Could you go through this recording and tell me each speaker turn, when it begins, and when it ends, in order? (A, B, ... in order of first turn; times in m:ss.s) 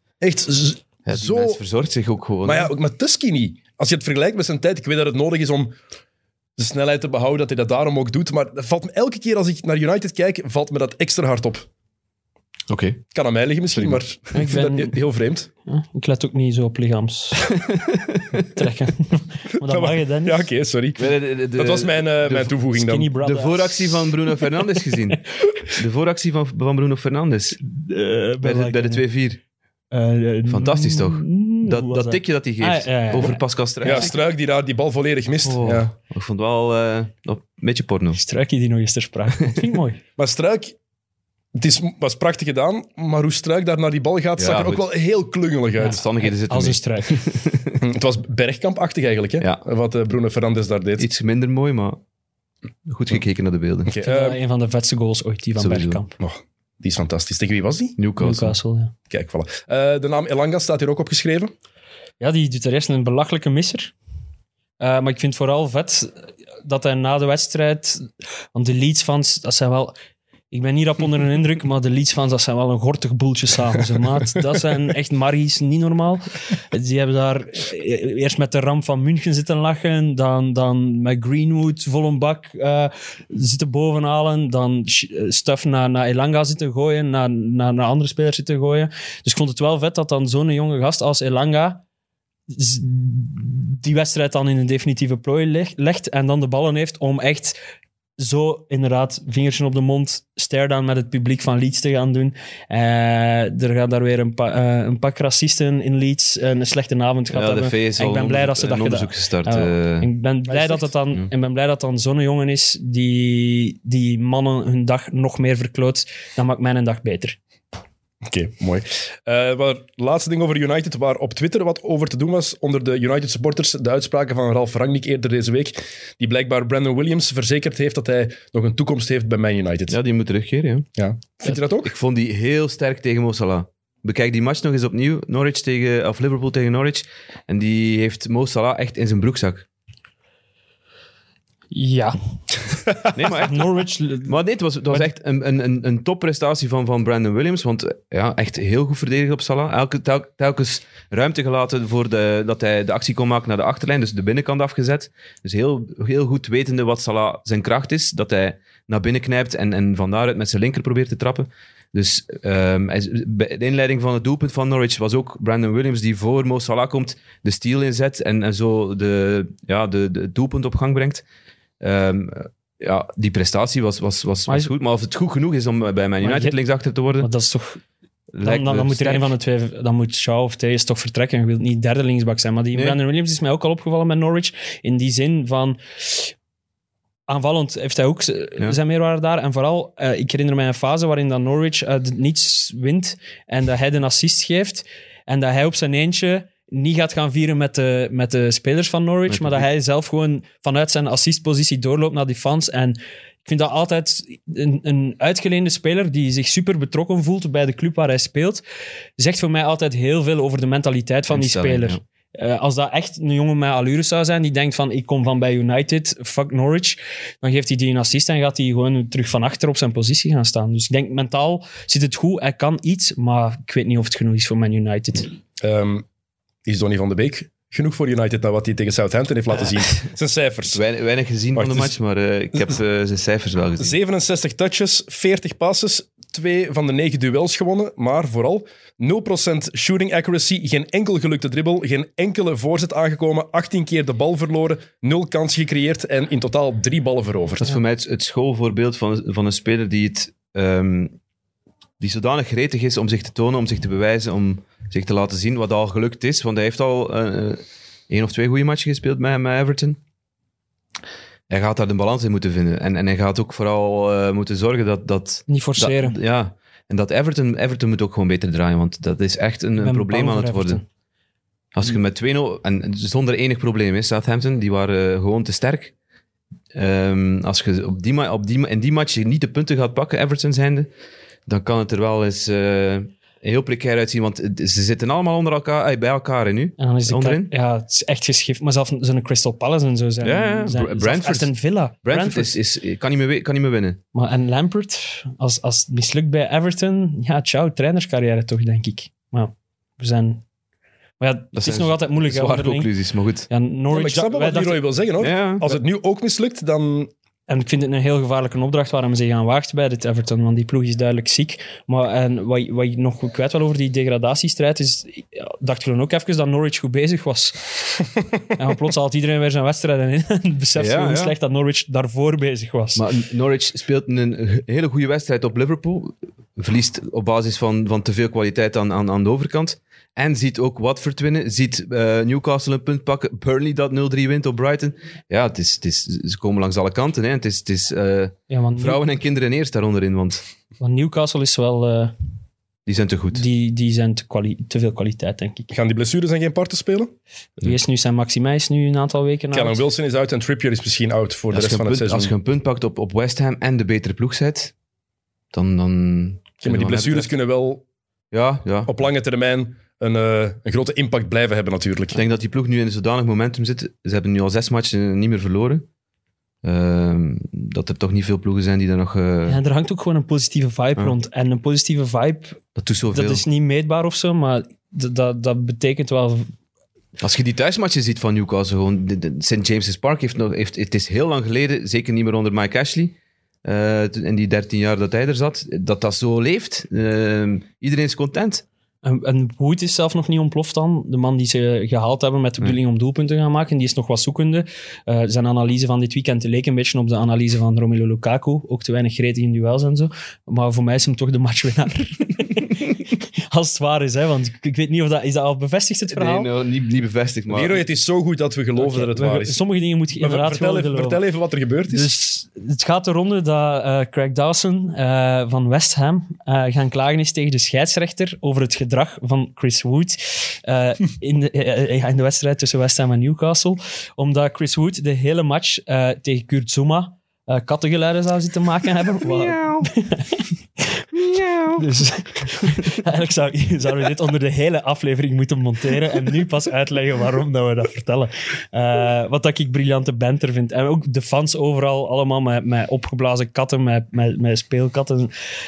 0:00.2-0:01.6 A
0:01.0-0:02.7 B
0:02.4-0:05.7 A
0:06.6-0:11.7 A
0:12.7-0:13.0 B
0:13.1-0:15.5 A
0:14.3-0:15.0 C
0:15.6-0:17.5 C
0:17.5-0:18.5 B
0:18.5-0:20.5 C
0:19.6-0:23.1 A
0:21.0-0:22.6 B
0:22.7-0:24.4 C
0:23.2-0:27.6 B
0:27.6-0:29.0 C
0:28.4-0:29.4 B
0:29.9-0:34.1 C
0:30.5-0:34.1 B
0:33.8-0:35.9 A
0:35.4-0:38.2 B
0:38.1-0:40.0 C
0:40.2-0:40.7 A
0:41.5-0:46.0 A
0:44.4-0:44.8 B
0:45.8-0:47.2 C
0:45.8-0:47.8 B
0:47.8-0:51.1 A
0:51.0-0:52.0 B
0:52.8-0:53.9 B
0:53.8-0:54.4 A
0:54.0-0:56.2 C
0:55.6-0:56.0 B
0:56.2-0:58.0 A
0:58.0-0:58.6 B
0:58.2-0:58.9 C
0:59.1-1:01.5 A
1:02.2-1:03.9 C
1:04.8-1:09.9 C
1:10.5-1:31.8 C
1:32.5-1:37.6 C
1:38.2-1:57.4 C
1:47.3-1:50.1 B
1:50.5-1:50.9 A
1:58.2-2:10.0 A
2:09.9-2:10.9 B
2:11.0-2:11.9 A
2:11.4-2:19.7 B
2:21.7-2:22.2 C
2:23.1-2:51.2 B
2:23.3-2:24.4 C
2:51.8-2:57.3 B
2:56.2-2:56.6 C
2:57.2-2:57.8 C
2:58.3-2:59.3 B
2:58.4-3:06.3 C
3:02.7-3:03.0 B
3:07.3-3:28.6 C
3:19.3-3:19.6 B
3:29.2-3:45.3 C
3:31.3-3:32.0 B
3:45.6-3:46.0 A
3:46.6-3:50.8 A
3:50.7-3:54.0 B
3:51.5-3:51.9 A
3:53.8-4:07.7 A
4:07.6-4:11.2 B
4:12.0-4:20.0 B
4:21.5-4:30.8 B
4:25.5-4:26.2 C
4:29.8-4:30.8 C
4:31.7-4:35.9 B
4:36.7-4:40.9 B
4:41.5-4:47.5 B
4:46.8-4:52.6 C
4:50.2-4:54.0 B
4:54.1-5:00.4 C
5:01.2-5:02.9 C
5:01.5-5:03.5 B
5:03.5-5:04.8 C
5:03.9-5:07.1 A
5:05.2-5:05.8 B
5:07.5-5:17.8 C
5:18.5-5:23.0 C
5:20.8-5:21.3 B
5:22.9-5:40.4 B
5:38.5-5:39.0 C
5:40.8-5:42.1 C
5:42.8-5:43.4 B
5:43.3-5:45.7 C
5:45.7-5:47.1 A
5:47.6-5:49.8 C
5:49.5-5:52.3 A
5:51.5-5:54.7 B
5:55.5-5:57.3 B
5:56.6-5:57.8 A
5:58.3-5:58.9 B
5:58.8-6:02.2 A
6:02.1-6:05.9 B
6:06.6-6:09.6 B
6:09.4-6:12.6 C
6:12.8-6:13.4 B
6:13.1-6:16.5 C
6:17.2-6:28.6 B
6:29.0-6:46.5 C
6:46.1-6:47.8 B
6:47.5-6:49.6 A
6:48.8-6:51.2 C
6:50.2-6:52.1 A
6:51.9-7:25.3 C